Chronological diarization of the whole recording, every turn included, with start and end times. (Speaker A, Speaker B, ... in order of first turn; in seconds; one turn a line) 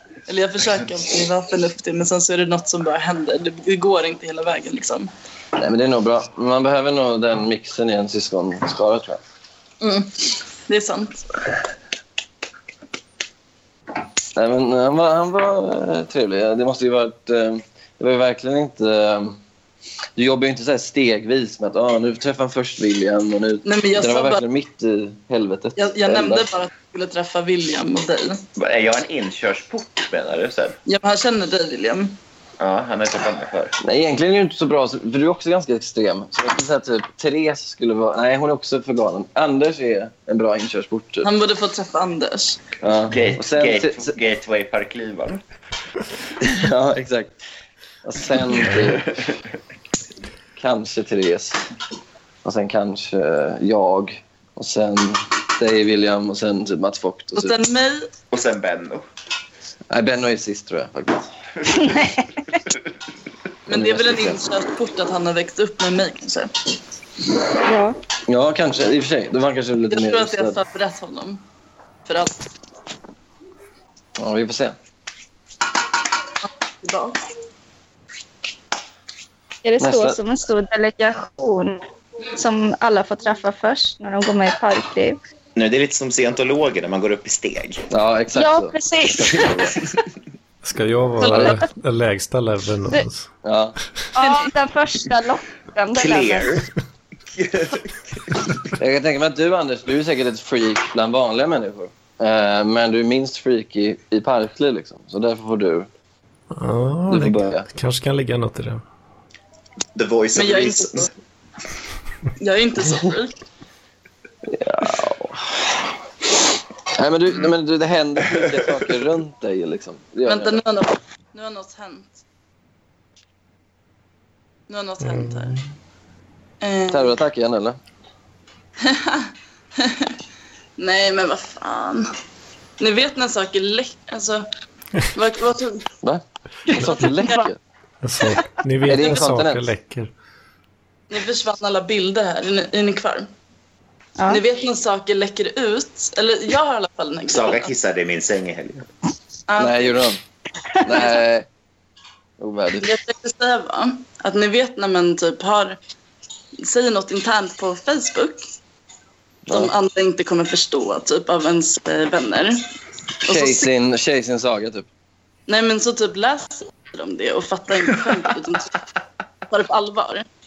Speaker A: 0.3-5.1
Speaker B: 5.5-9.2
Speaker A: 9.8-11.2
Speaker B: 14.3-19.4
Speaker B: 20.2-26.4
Speaker A: 23.6-24.4
Speaker A: 25.8-28.4
Speaker C: 28.6-30.8
Speaker A: 30.9-32.2
Speaker C: 32.6-33.7
Speaker B: 33.8-41.3
Speaker A: 41.2-42.6
Speaker B: 42.8-44.1
Speaker C: 43.1-45.4
Speaker B: 46.4-47.3
Speaker B: 48.0-49.2
Speaker B: 50.5-51.6
Speaker B: 52.4-57.5
Speaker A: 57.3-58.1
Speaker C: 58.3-59.0
Speaker B: 59.9-61.3
Speaker D: 61.7-62.3
Speaker A: 63.7-66.5
Speaker B: 63.7-64.4
Speaker D: 67.6-68.0
Speaker B: 68.3-70.6
Speaker A: 69.9-71.4
Speaker A: 72.0-72.4
Speaker B: 74.2-74.7
Speaker A: 76.8-77.2
Speaker D: 79.6-81.8
Speaker B: 79.8-80.2
Speaker D: 82.3-85.2
Speaker C: 85.5-87.8
Speaker B: 87.9-89.8
Speaker D: 88.3-89.8
Speaker E: 90.6-93.3
Speaker B: 91.2-91.6
Speaker B: 93.4-93.8
Speaker D: 94.2-96.5
Speaker A: 94.2-94.5
Speaker C: 95.9-96.7
Speaker C: 97.3-98.5
Speaker B: 98.8-105.9
Speaker E: 106.5-108.8
Speaker B: 107.1-107.6
Speaker C: 109.9-111.1
Speaker A: 110.3-111.1
Speaker A: 112.4-113.3
Speaker B: 114.5-115.7
Speaker B: 116.9-120.6
Speaker A: 120.2-122.2
Speaker A: 124.7-125.6
Speaker E: 125.0-125.6
Speaker A: 126.6-127.1
Speaker B: 126.9-127.8
Speaker A: 128.8-130.1
Speaker A: 130.8-132.1
Speaker A: 132.8-134.5
Speaker A: 135.1-135.9
Speaker B: 136.0-137.6
Speaker A: 136.7-137.5
Speaker E: 138.0-140.1
Speaker B: 138.8-139.6
Speaker A: 141.1-143.3
Speaker A: 144.3-147.7
Speaker C: 147.3-148.9
Speaker A: 149.5-150.0
Speaker B: 149.6-150.2
Speaker B: 150.8-151.5
Speaker B: 152.4-153.0
Speaker A: 152.8-155.8
Speaker A: 156.6-158.4
Speaker B: 159.5-159.7
Speaker A: 159.5-162.6
Speaker A: 163.2-163.7
Speaker B: 163.3-164.8
Speaker A: 165.5-168.7
Speaker A: 169.5-170.2